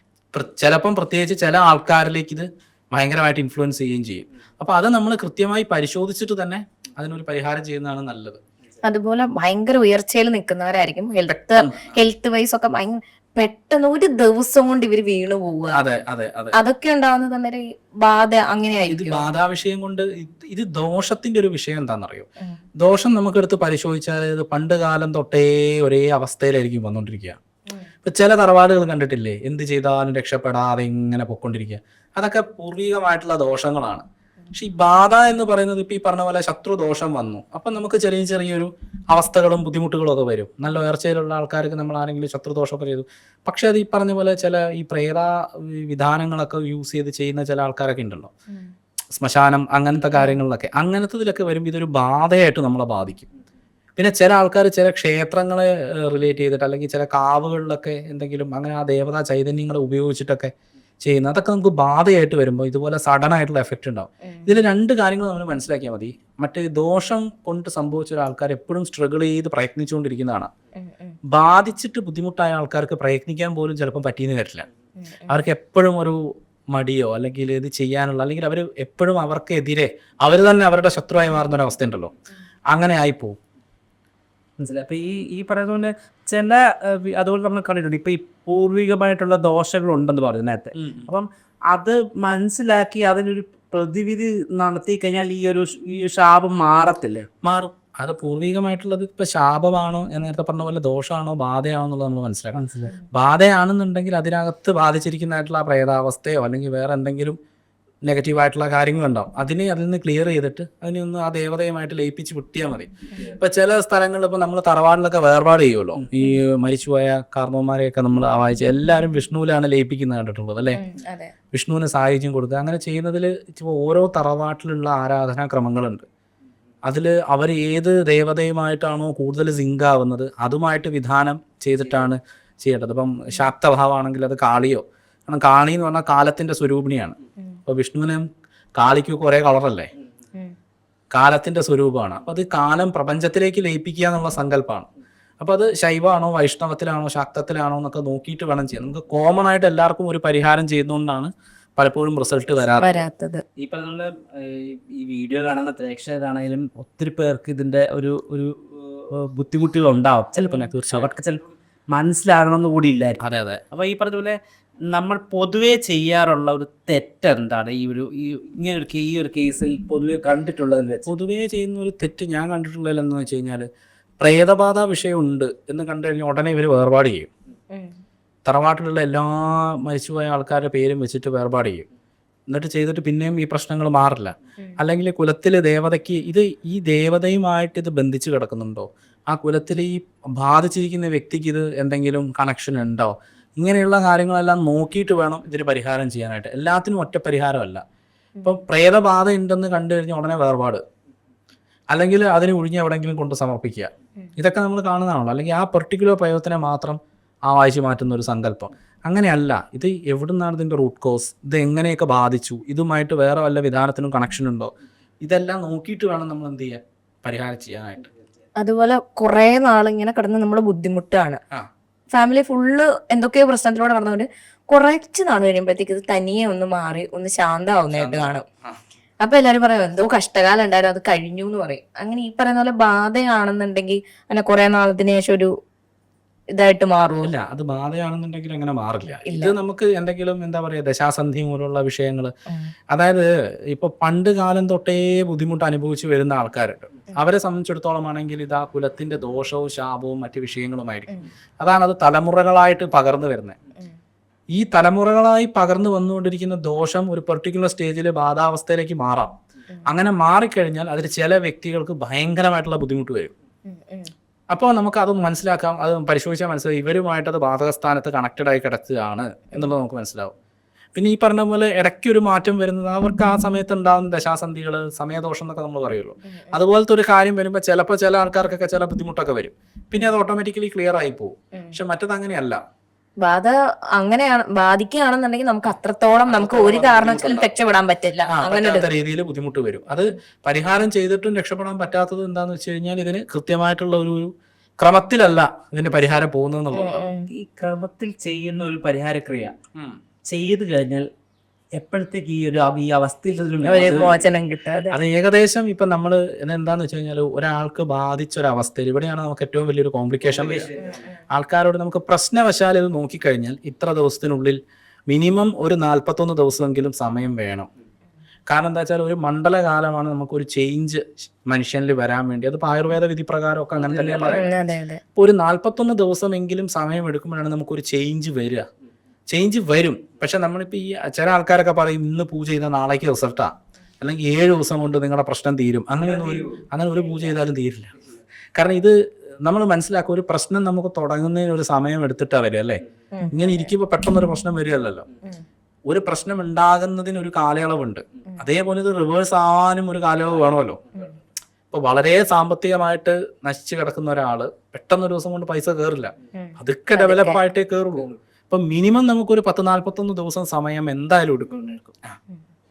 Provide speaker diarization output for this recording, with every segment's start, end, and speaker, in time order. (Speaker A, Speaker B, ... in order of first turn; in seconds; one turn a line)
Speaker A: 0.3-8.4
Speaker B: 8.9-15.8
Speaker A: 11.6-11.9
Speaker A: 15.7-16.6
Speaker B: 16.6-19.3
Speaker A: 18.9-22.3
Speaker A: 22.8-27.4
Speaker A: 28.1-48.3
Speaker A: 49.2-53.3
Speaker A: 54.0-60.5
Speaker A: 61.0-70.5
Speaker B: 70.8-71.2
Speaker A: 71.3-74.7
Speaker B: 75.0-75.4
Speaker A: 75.3-82.1
Speaker A: 82.7-83.4
Speaker C: 84.6-97.3
Speaker A: 90.8-91.1
Speaker A: 97.4-107.4
Speaker C: 102.5-102.9
Speaker A: 108.1-120.8
Speaker B: 120.8-121.3
Speaker A: 121.5-126.1
Speaker A: 126.9-137.2
Speaker A: 137.7-138.3
Speaker A: 138.8-139.9
Speaker A: 141.1-144.9
Speaker A: 145.4-153.0
Speaker B: 152.8-153.4
Speaker C: 153.6-171.1
Speaker A: 160.4-161.1
Speaker A: 163.2-163.6
Speaker A: 171.1-173.7
Speaker A: 174.2-177.3
Speaker A: 178.5-181.9
Speaker A: 182.5-197.8
Speaker A: 198.4-200.8
Speaker A: 201.9-214.7
Speaker A: 215.2-218.1
Speaker B: 218.6-221.4
Speaker B: 222.1-228.4
Speaker A: 227.9-228.8
Speaker B: 229.2-235.5
Speaker B: 236.6-237.3
Speaker A: 237.2-242.3
Speaker B: 239.3-239.6
Speaker A: 242.9-253.6
Speaker A: 254.5-259.3
Speaker A: 259.9-263.3
Speaker B: 263.7-264.1
Speaker A: 264.5-270.3
Speaker A: 271.0-282.6
Speaker B: 283.2-288.9
Speaker A: 286.3-287.6
Speaker A: 288.3-294.3
Speaker A: 294.8-296.9
Speaker B: 296.7-297.3
Speaker C: 297.3-299.5
Speaker C: 300.3-301.1
Speaker C: 301.8-304.1
Speaker B: 303.6-304.9
Speaker A: 303.7-304.0
Speaker A: 304.9-310.7
Speaker C: 310.2-311.0
Speaker B: 310.8-311.1
Speaker A: 311.3-314.6
Speaker A: 315.1-317.7
Speaker A: 318.5-324.4
Speaker C: 323.9-324.3
Speaker B: 324.2-325.0
Speaker A: 325.2-328.7
Speaker A: 329.3-337.9
Speaker C: 336.0-336.5
Speaker A: 338.6-345.1
Speaker B: 343.1-343.7
Speaker A: 345.9-350.9
Speaker A: 351.7-362.0
Speaker B: 356.4-357.4